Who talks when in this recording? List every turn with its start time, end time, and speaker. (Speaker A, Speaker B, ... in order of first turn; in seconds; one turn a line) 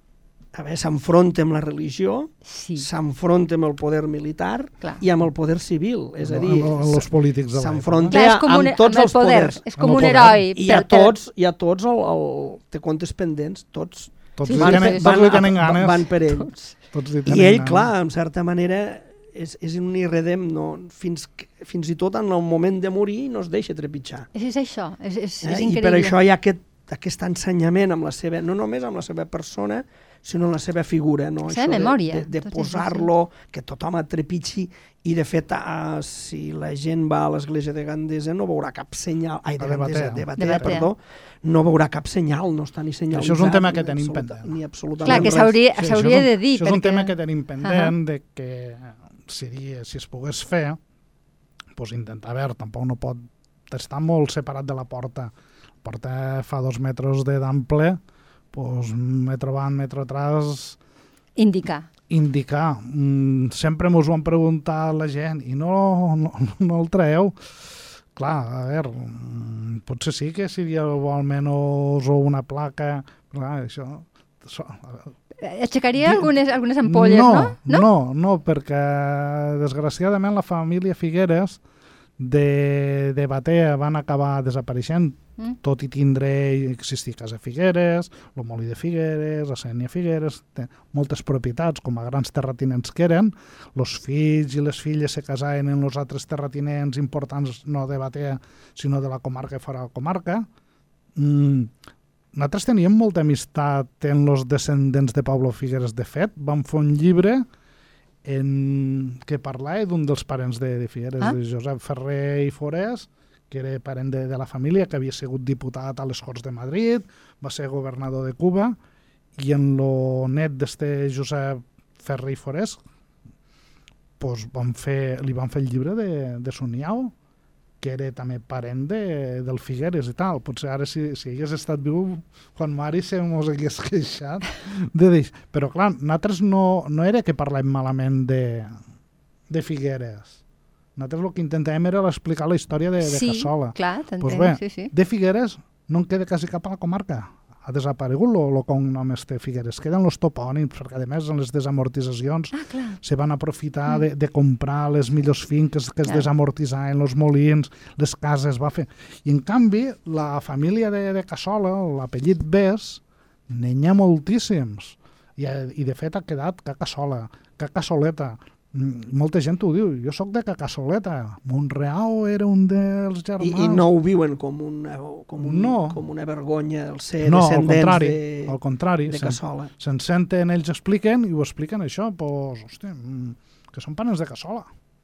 Speaker A: 0.5-16.5
Speaker B: 2.4-2.9
Speaker C: 6.2-8.2
Speaker B: 8.1-11.1
Speaker C: 9.8-10.4
Speaker C: 14.4-16.1
Speaker B: 14.4-15.4
Speaker B: 16.3-16.7
Speaker C: 16.9-17.9
Speaker A: 17.2-24.3
Speaker B: 24.3-26.1
Speaker A: 25.4-45.6
Speaker B: 31.5-33.1
Speaker C: 39.6-40.7
Speaker B: 40.4-40.9
Speaker C: 43.1-50.8
Speaker B: 45.0-47.9
Speaker C: 51.8-55.3
Speaker C: 55.8-58.0
Speaker C: 58.5-60.8
Speaker B: 61.4-61.9
Speaker C: 62.1-67.5
Speaker C: 68.2-75.1
Speaker B: 75.4-77.9
Speaker C: 76.0-81.6
Speaker C: 82.2-100.5
Speaker C: 101.2-101.7
Speaker C: 102.3-107.5
Speaker C: 108.2-118.8
Speaker C: 119.4-122.8
Speaker C: 124.2-127.1
Speaker C: 127.8-138.8
Speaker C: 139.5-140.4
Speaker C: 141.0-173.9
Speaker B: 143.0-144.9
Speaker B: 152.5-153.0
Speaker A: 173.4-178.6
Speaker C: 175.4-176.0
Speaker C: 177.2-184.7
Speaker A: 179.1-179.7